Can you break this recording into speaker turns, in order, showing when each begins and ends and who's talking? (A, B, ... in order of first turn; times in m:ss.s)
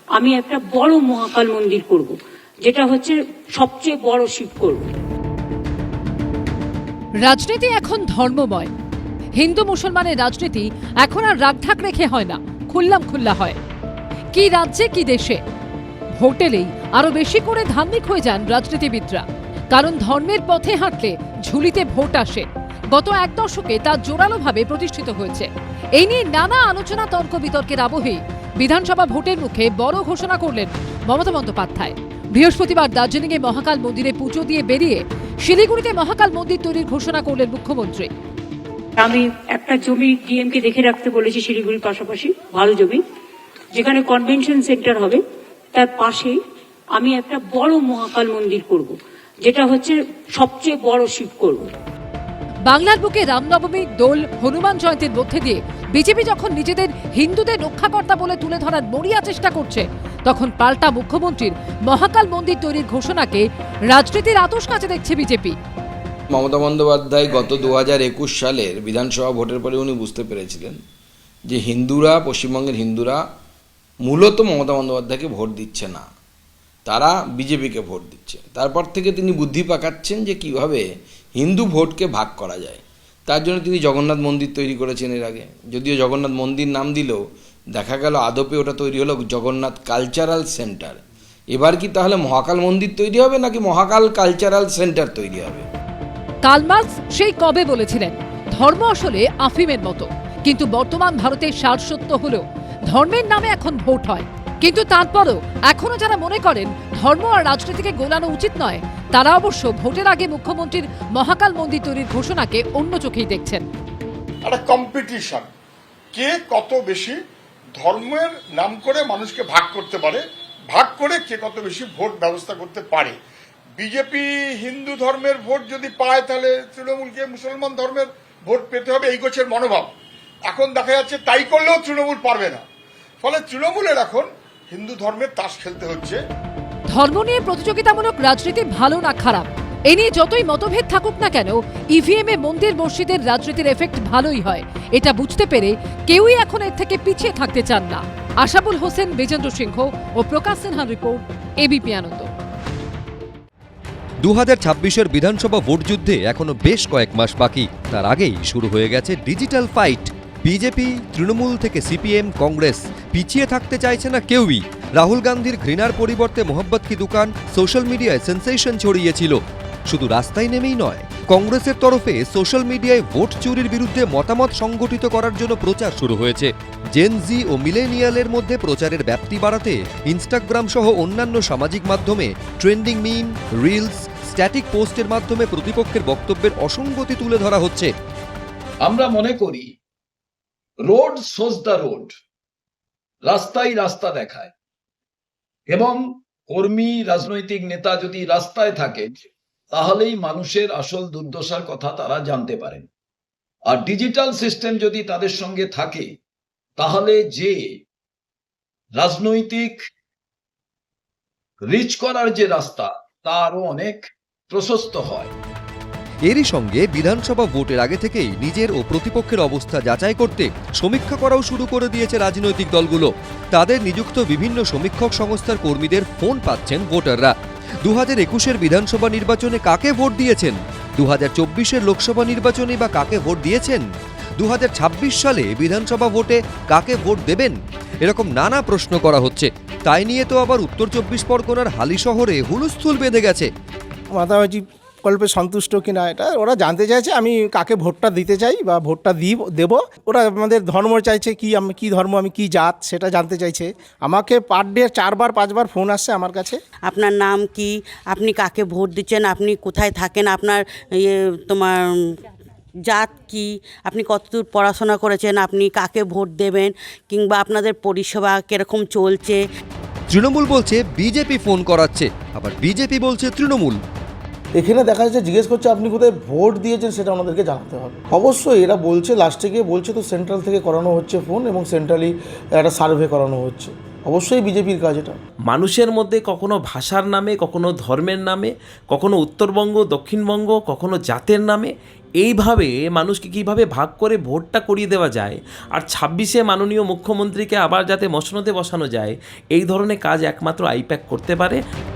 0:00.2-0:02.1 A
0:02.6-0:04.9 A
0:07.2-0:08.7 B
0:09.4-0:13.6 B
0:14.3-0:15.4 B
0:16.2-0:38.1 B
0:39.0-0:43.0 A
0:43.7-0:45.2 A
0:45.7-0:46.3 A
0:47.0-0:51.7 A
0:52.6-1:05.5 B
1:06.3-1:10.8 C
1:11.5-1:13.2 C
1:14.0-1:16.0 C
1:16.8-1:27.2 C
1:27.7-1:31.0 C
1:31.5-1:35.6 C
1:36.4-1:53.6 B
1:54.4-1:55.4 D
1:56.1-1:57.2 D
1:57.8-2:03.1 D
2:03.8-2:09.9 D
2:10.4-2:12.6 D
2:13.2-2:16.2 D
2:16.9-2:32.3 B
2:34.2-3:07.9 E
3:08.8-3:09.7 F
3:10.8-3:12.1 F
3:13.2-3:14.5 F
3:15.7-3:19.1 F
3:19.7-3:22.9 F
3:23.7-3:26.1 F
3:26.8-3:27.7 F
3:29.0-3:29.8 F
3:31.6-3:35.3 F
3:36.2-3:47.3 E
3:47.8-3:53.8 E
3:54.4-4:03.5 E
4:04.1-4:16.6 G
4:16.8-4:22.1 H
4:22.8-4:29.4 H
4:30.1-4:33.8 E
4:34.5-4:45.2 I
4:45.5-5:01.6 J